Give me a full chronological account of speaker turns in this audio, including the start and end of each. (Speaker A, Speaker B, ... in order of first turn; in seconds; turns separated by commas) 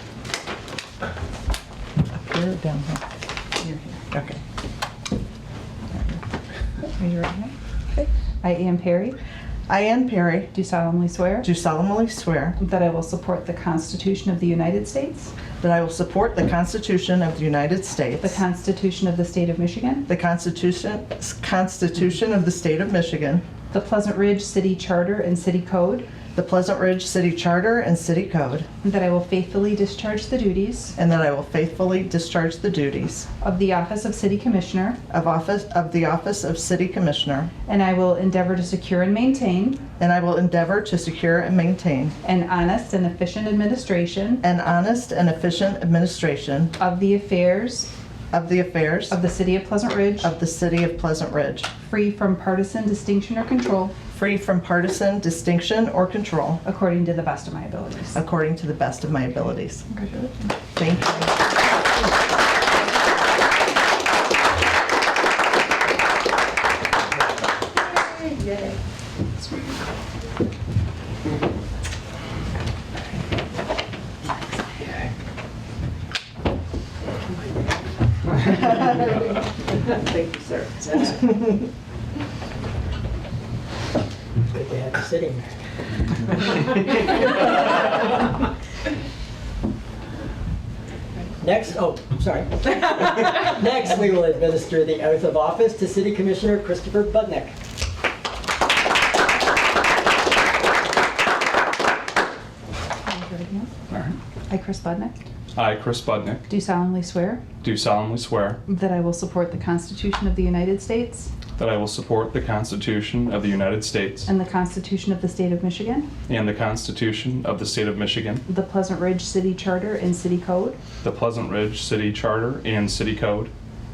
Speaker A: 2.2-3.0, Speaker A: 4.0-4.4, Speaker B: 7.0-7.5, Speaker B: 8.4-9.2, Speaker A: 9.7-10.5, Speaker B: 10.5-11.5, Speaker A: 11.4-12.6, Speaker B: 12.6-15.3, Speaker A: 15.6-18.4, Speaker B: 18.2-20.1, Speaker A: 20.1-23.4, Speaker B: 23.7-26.1, Speaker A: 26.4-28.7, Speaker B: 28.8-30.9, Speaker A: 31.0-33.3, Speaker B: 33.4-35.0, Speaker A: 35.1-37.5, Speaker B: 37.7-39.8, Speaker A: 40.0-42.1, Speaker B: 42.2-44.4, Speaker A: 44.4-46.7, Speaker B: 46.8-47.9, Speaker A: 48.3-49.2, Speaker B: 49.1-50.3, Speaker A: 50.2-51.7, Speaker B: 51.8-53.9, Speaker A: 54.1-56.6, Speaker B: 56.6-58.2, Speaker A: 58.1-59.9, Speaker B: 59.9-60.5, Speaker A: 60.8-61.4, Speaker C: 84.5-85.5, Speaker C: 86.5-87.5, Speaker C: 91.4-97.5, Speaker B: 103.1-103.7, Speaker D: 103.9-104.2, Speaker B: 104.5-105.1, Speaker D: 105.6-106.4, Speaker B: 106.5-107.4, Speaker D: 107.6-108.6, Speaker B: 108.7-111.3, Speaker D: 111.6-114.3, Speaker B: 114.2-116.1, Speaker D: 116.3-118.4, Speaker B: 118.5-120.8, Speaker D: 121.0-123.5